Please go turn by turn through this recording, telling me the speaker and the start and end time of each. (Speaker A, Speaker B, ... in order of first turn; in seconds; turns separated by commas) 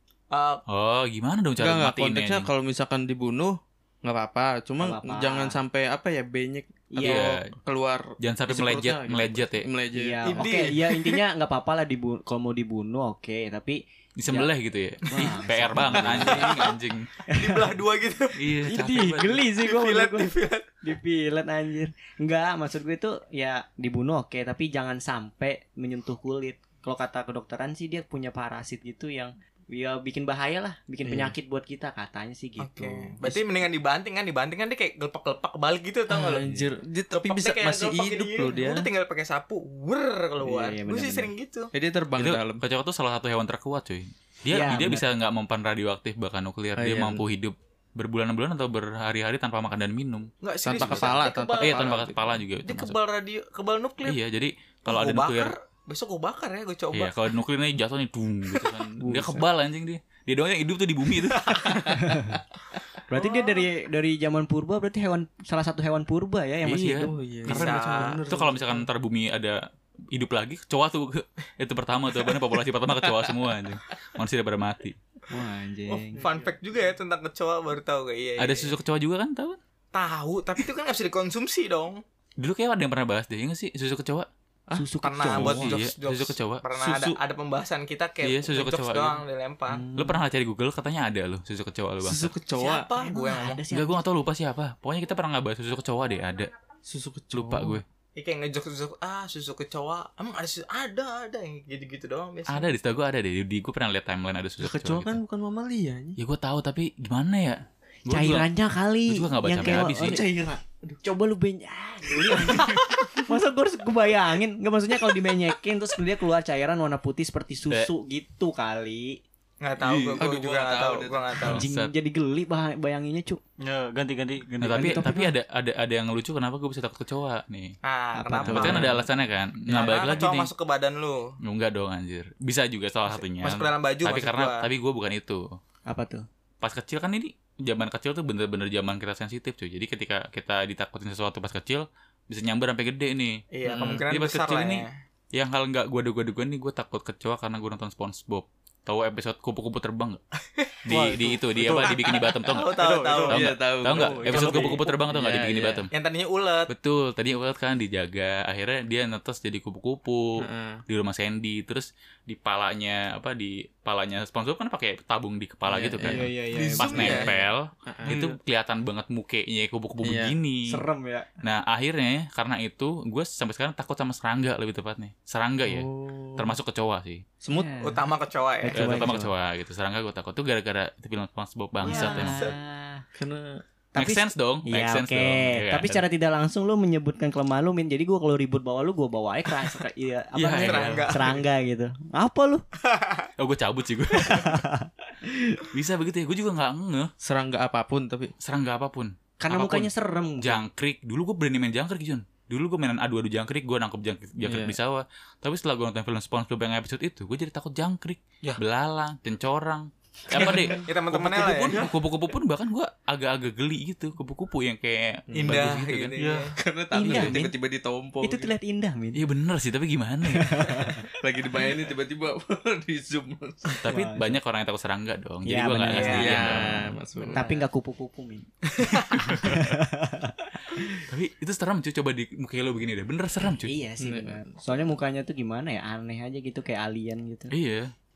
Speaker A: 0.3-0.6, Speaker B: 0.7-2.5, Speaker C: 1.6-10.7, Speaker D: 4.8-5.6, Speaker D: 6.9-7.4, Speaker B: 7.0-7.6, Speaker B: 8.2-9.7, Speaker D: 9.9-14.5, Speaker A: 10.2-11.2, Speaker B: 14.2-17.1, Speaker D: 15.1-16.6, Speaker C: 15.8-16.5, Speaker A: 17.3-18.6, Speaker D: 17.3-17.7, Speaker B: 18.4-19.4, Speaker D: 18.6-33.5, Speaker A: 19.6-20.7, Speaker C: 31.0-31.3, Speaker A: 32.6-36.5, Speaker C: 36.1-38.9, Speaker D: 36.3-36.7, Speaker A: 37.1-41.7, Speaker D: 40.4-41.3, Speaker C: 41.7-42.6, Speaker B: 42.2-53.0, Speaker D: 44.5-45.0, Speaker C: 46.8-47.2, Speaker A: 50.4-52.0, Speaker C: 50.6-52.3, Speaker A: 52.6-54.2, Speaker B: 54.0-55.5, Speaker A: 54.9-57.1, Speaker B: 56.9-62.0, Speaker D: 59.0-59.5, Speaker A: 61.3-62.0, Speaker D: 62.0-62.4, Speaker D: 63.1-67.1, Speaker A: 63.1-63.7, Speaker B: 66.6-69.6, Speaker C: 67.0-68.9, Speaker A: 67.5-68.2, Speaker B: 70.1-75.0, Speaker C: 73.2-73.6, Speaker D: 75.3-76.2, Speaker A: 75.9-78.8, Speaker C: 76.2-76.5, Speaker B: 78.4-79.6, Speaker A: 79.9-82.0, Speaker B: 82.4-84.3, Speaker D: 84.7-85.8, Speaker A: 85.0-89.8, Speaker B: 85.3-87.2, Speaker B: 88.2-89.2, Speaker D: 89.7-90.2, Speaker B: 90.0-92.4, Speaker C: 92.0-92.9, Speaker A: 92.5-93.6, Speaker D: 93.0-94.0, Speaker B: 93.7-96.5, Speaker C: 96.9-97.8, Speaker B: 97.3-97.8, Speaker A: 98.2-102.7, Speaker B: 102.5-105.2, Speaker C: 104.6-106.2, Speaker B: 106.2-108.5, Speaker D: 108.1-110.3, Speaker B: 109.1-110.2, Speaker C: 109.6-111.0, Speaker D: 111.0-119.2, Speaker C: 112.2-112.7, Speaker A: 119.6-121.6, Speaker C: 119.9-121.4, Speaker B: 121.4-121.9, Speaker D: 121.5-123.4, Speaker E: 123.6-125.1, Speaker B: 124.6-127.7, Speaker D: 124.7-125.3, Speaker A: 127.8-128.9, Speaker D: 128.2-129.0, Speaker B: 128.4-130.5, Speaker A: 129.7-131.3, Speaker B: 131.4-135.6, Speaker A: 133.1-134.7, Speaker D: 135.9-136.2, Speaker B: 136.6-150.2, Speaker A: 143.5-144.9, Speaker B: 150.8-155.9, Speaker E: 150.9-154.9, Speaker A: 151.8-153.4, Speaker C: 153.3-155.9, Speaker A: 155.9-156.7, Speaker B: 156.7-170.8, Speaker C: 160.4-160.8, Speaker C: 165.7-168.3, Speaker D: 166.0-167.3, Speaker A: 166.5-167.3, Speaker C: 170.0-170.4, Speaker D: 170.7-171.3, Speaker B: 171.4-177.2, Speaker C: 175.6-176.5, Speaker C: 177.4-177.8, Speaker D: 177.5-178.0, Speaker A: 177.8-179.0, Speaker D: 178.6-179.3, Speaker B: 178.7-182.4, Speaker D: 181.8-183.0, Speaker A: 181.8-182.5, Speaker C: 183.2-183.6, Speaker B: 183.9-186.0, Speaker D: 183.9-192.6, Speaker B: 190.3-191.2, Speaker A: 190.5-191.4, Speaker A: 192.8-193.3, Speaker B: 193.4-194.7, Speaker D: 194.1-195.7, Speaker B: 195.7-197.1, Speaker C: 197.2-198.3, Speaker B: 198.4-216.2, Speaker D: 199.4-200.6, Speaker C: 204.4-204.8, Speaker A: 210.4-211.9, Speaker C: 215.3-215.7, Speaker A: 215.4-216.5, Speaker C: 216.3-218.5, Speaker D: 216.9-217.5, Speaker B: 217.0-217.5, Speaker D: 218.2-219.2, Speaker B: 219.1-220.9, Speaker D: 220.3-221.1, Speaker C: 221.0-223.9, Speaker B: 223.8-227.0, Speaker D: 223.9-224.4, Speaker D: 225.4-226.8, Speaker A: 225.9-226.4, Speaker C: 226.0-227.6, Speaker D: 227.3-228.4, Speaker A: 228.7-229.3, Speaker B: 229.2-229.8, Speaker D: 229.4-231.0, Speaker B: 231.1-233.8, Speaker D: 233.6-237.5, Speaker C: 234.0-234.8, Speaker B: 237.5-237.9